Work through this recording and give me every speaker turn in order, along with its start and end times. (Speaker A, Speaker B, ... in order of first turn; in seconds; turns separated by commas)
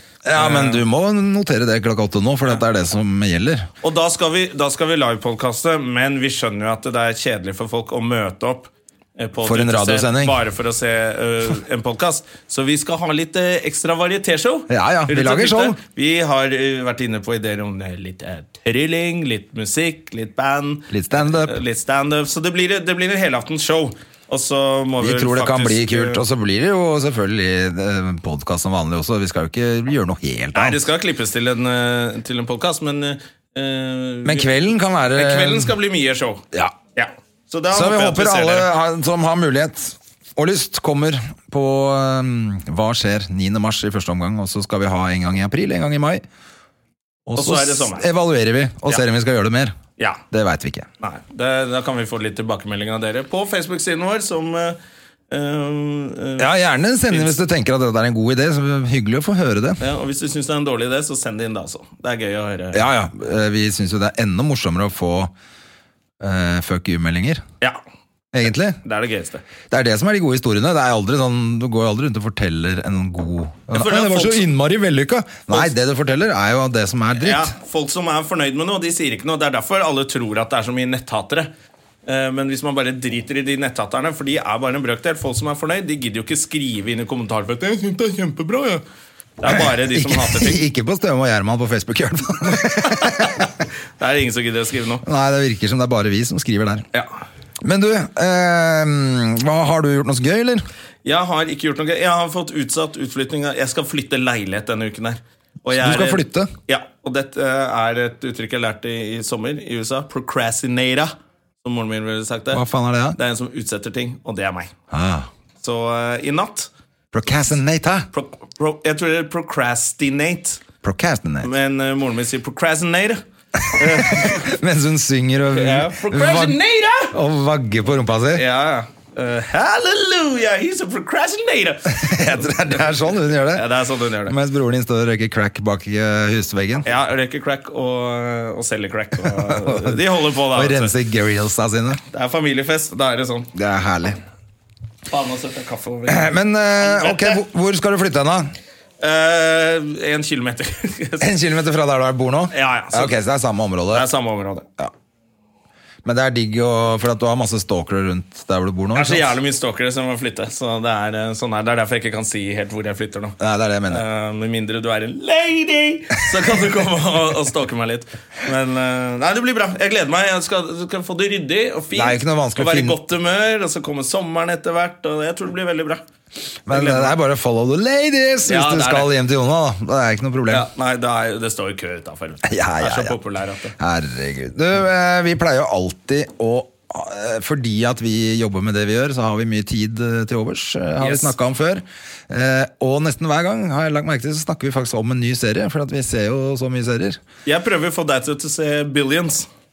Speaker A: 0.2-3.7, Speaker B: 0.3-0.8, Speaker B: 3.8-26.2, Speaker A: 9.4-10.4, Speaker A: 14.7-15.8, Speaker A: 20.9-21.6, Speaker A: 25.0-30.8, Speaker B: 30.5-34.5, Speaker A: 34.2-35.7, Speaker B: 35.1-36.4, Speaker B: 37.0-38.7, Speaker A: 37.7-46.2, Speaker A: 47.2-49.8, Speaker B: 47.3-48.1, Speaker A: 50.3-50.9, Speaker B: 51.0-54.8, Speaker B: 55.3-56.5, Speaker A: 56.4-59.8, Speaker B: 57.1-57.4, Speaker B: 59.8-62.8, Speaker A: 62.7-65.3, Speaker A: 66.2-67.4, Speaker A: 68.3-68.8, Speaker B: 68.8-69.4, Speaker A: 69.7-77.5, Speaker B: 73.7-74.5, Speaker B: 77.2-81.5, Speaker B: 82.0-88.8, Speaker B: 89.4-90.6, Speaker A: 89.5-93.5, Speaker B: 93.0-93.5, Speaker B: 94.0-95.0, Speaker A: 95.0-96.8, Speaker A: 97.6-100.7, Speaker B: 101.0-112.6, Speaker A: 105.7-106.5, Speaker A: 112.5-113.2, Speaker B: 113.2-114.7, Speaker A: 114.9-115.3, Speaker B: 115.6-116.7, Speaker A: 117.1-118.1, Speaker B: 118.1-120.6, Speaker A: 120.8-121.5, Speaker B: 121.4-124.5, Speaker A: 123.8-126.6, Speaker B: 125.5-127.1, Speaker A: 127.1-128.4, Speaker B: 128.3-134.3, Speaker A: 131.9-133.7, Speaker A: 134.3-136.9, Speaker B: 136.8-140.9, Speaker A: 139.2-140.0, Speaker A: 140.5-142.0, Speaker B: 142.1-143.5, Speaker A: 143.5-144.2, Speaker B: 145.1-147.4, Speaker A: 146.1-148.5, Speaker B: 149.0-151.3, Speaker A: 151.2-154.1, Speaker B: 152.5-153.2, Speaker B: 153.9-154.7, Speaker A: 156.0-159.3, Speaker B: 158.9-163.3, Speaker A: 163.4-164.0, Speaker B: 163.9-176.0, Speaker A: 171.9-172.9, Speaker A: 176.7-180.7, Speaker B: 176.7-177.2, Speaker B: 178.5-179.1, Speaker B: 180.5-183.7, Speaker A: 182.4-183.2, Speaker A: 183.8-197.2, Speaker B: 191.0-191.3, Speaker B: 197.4-199.5